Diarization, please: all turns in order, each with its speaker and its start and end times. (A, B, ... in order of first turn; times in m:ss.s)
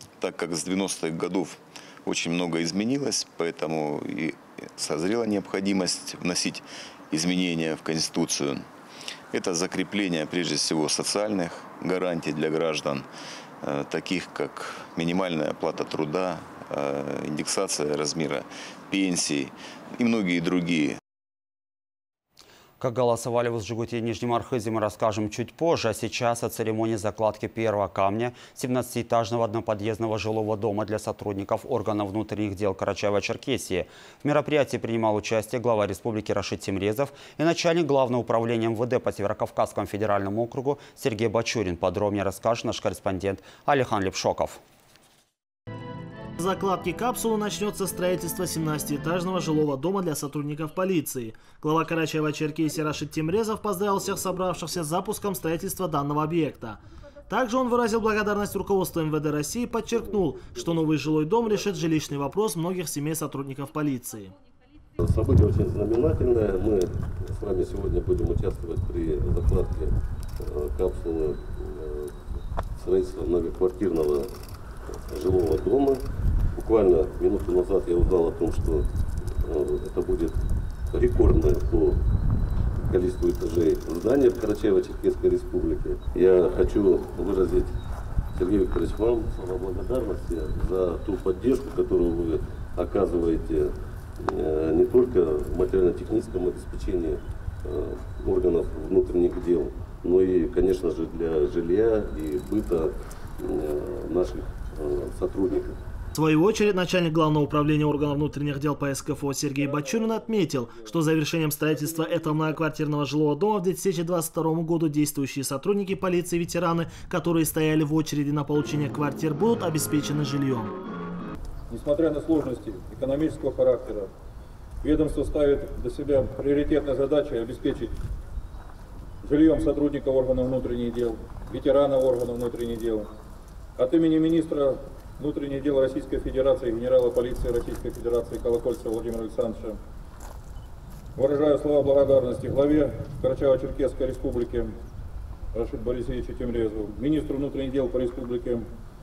0:00.2-0:08.6 A
0:09.3-0:13.0 A
0:13.6-0:21.0 A
0:22.8-0:44.6 B
0:46.4-1:04.3 C
1:05.0-1:12.2 D
1:12.8-1:14.3 D
1:14.9-1:16.0 D
1:16.5-1:20.4 D
1:20.9-1:22.0 D
1:22.8-1:27.8 D
1:28.3-1:45.8 D
1:46.2-2:00.8 C
1:49.5-1:51.1 E
1:51.7-1:52.6 E
2:01.7-2:04.1 E
2:04.8-2:08.0 E
2:09.2-2:13.1 E
2:13.8-2:19.8 E
2:21.2-2:24.8 E
2:25.5-2:28.7 E